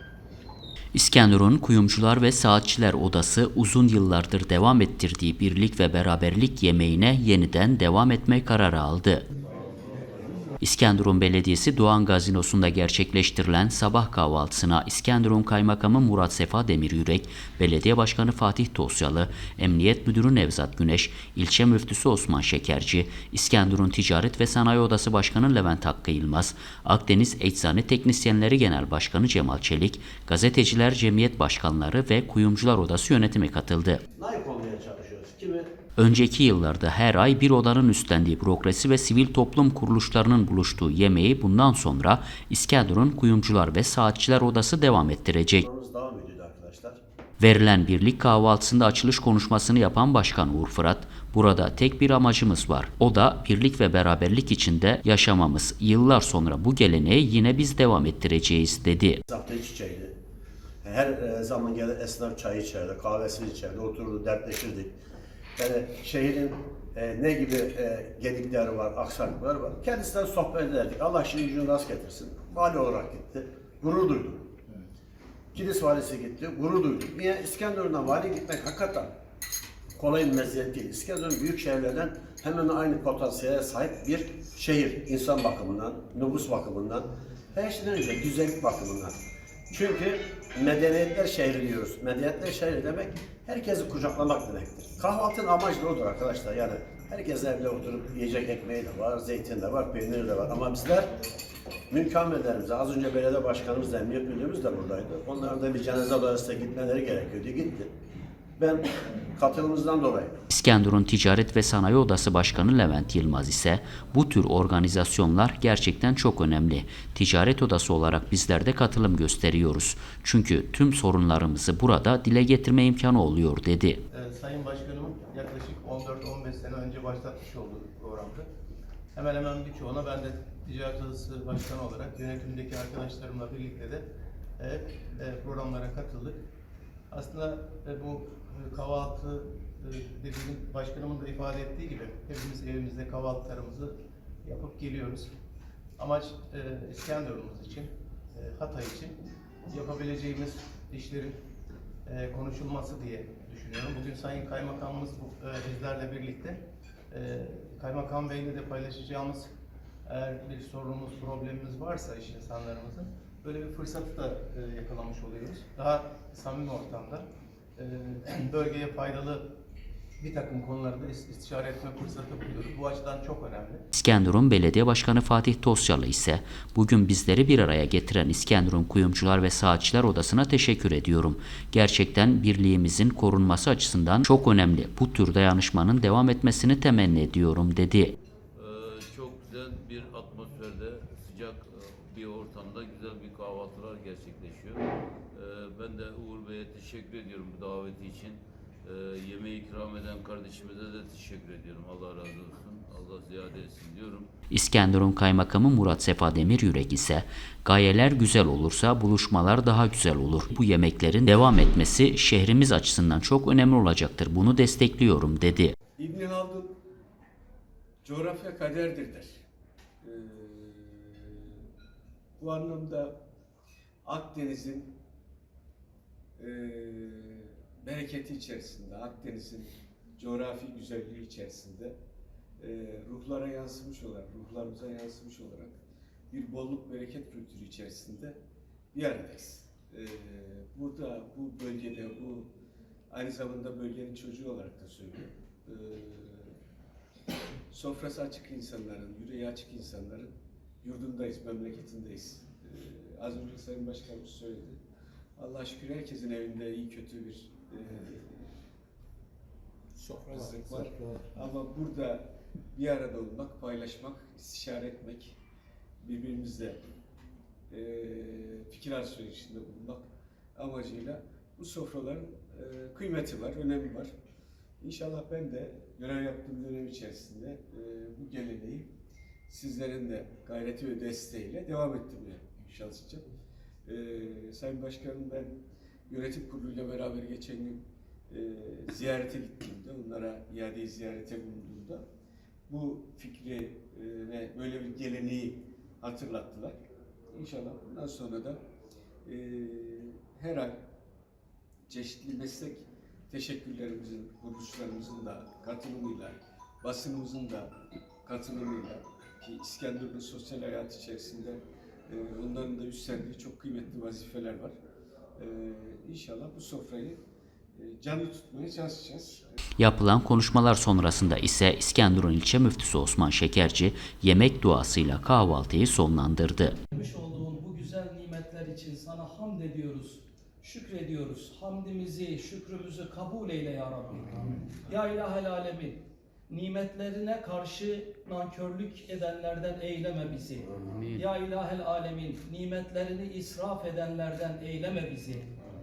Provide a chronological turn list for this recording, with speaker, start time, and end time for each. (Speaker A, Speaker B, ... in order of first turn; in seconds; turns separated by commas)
Speaker A: 0.9-9.2, Speaker A: 10.6-34.0, Speaker B: 34.1-35.7, Speaker A: 36.0-45.7, Speaker B: 45.6-47.0, Speaker A: 47.4-59.2, Speaker B: 59.3-60.1, Speaker B: 60.8-65.0, Speaker B: 65.6-74.5, Speaker B: 75.5-79.1, Speaker B: 80.0-89.2, Speaker B: 89.7-101.2, Speaker B: 101.9-107.9, Speaker B: 108.6-110.3, Speaker A: 110.5-124.0, Speaker C: 124.1-128.5, Speaker C: 129.2-134.1, Speaker C: 134.6-136.4, Speaker C: 137.1-145.3, Speaker C: 146.0-149.2, Speaker C: 149.7-151.4, Speaker C: 152.1-156.6, Speaker C: 157.1-159.5, Speaker C: 160.1-169.5, Speaker C: 170.2-173.9, Speaker A: 173.9-188.2, Speaker D: 188.6-204.3, Speaker A: 204.5-215.7, Speaker E: 216.0-216.8, Speaker E: 218.0-219.4, Speaker E: 220.0-221.6, Speaker E: 222.4-223.2, Speaker E: 224.1-224.9, Speaker E: 226.4-232.0, Speaker E: 232.6-235.8, Speaker E: 236.3-238.4, Speaker E: 238.9-242.5, Speaker E: 243.1-246.6, Speaker E: 247.7-254.8, Speaker E: 255.4-258.5, Speaker E: 260.1-265.4, Speaker E: 266.0-266.8, Speaker E: 267.7-274.1, Speaker E: 274.8-278.9, Speaker E: 279.5-283.3, Speaker E: 283.9-285.5, Speaker E: 286.1-292.0, Speaker E: 292.7-296.8, Speaker E: 297.3-298.6, Speaker E: 299.2-300.8, Speaker E: 301.9-307.7, Speaker E: 308.2-314.8, Speaker E: 315.4-317.2, Speaker E: 317.8-319.6, Speaker A: 319.8-326.8, Speaker F: 326.9-345.5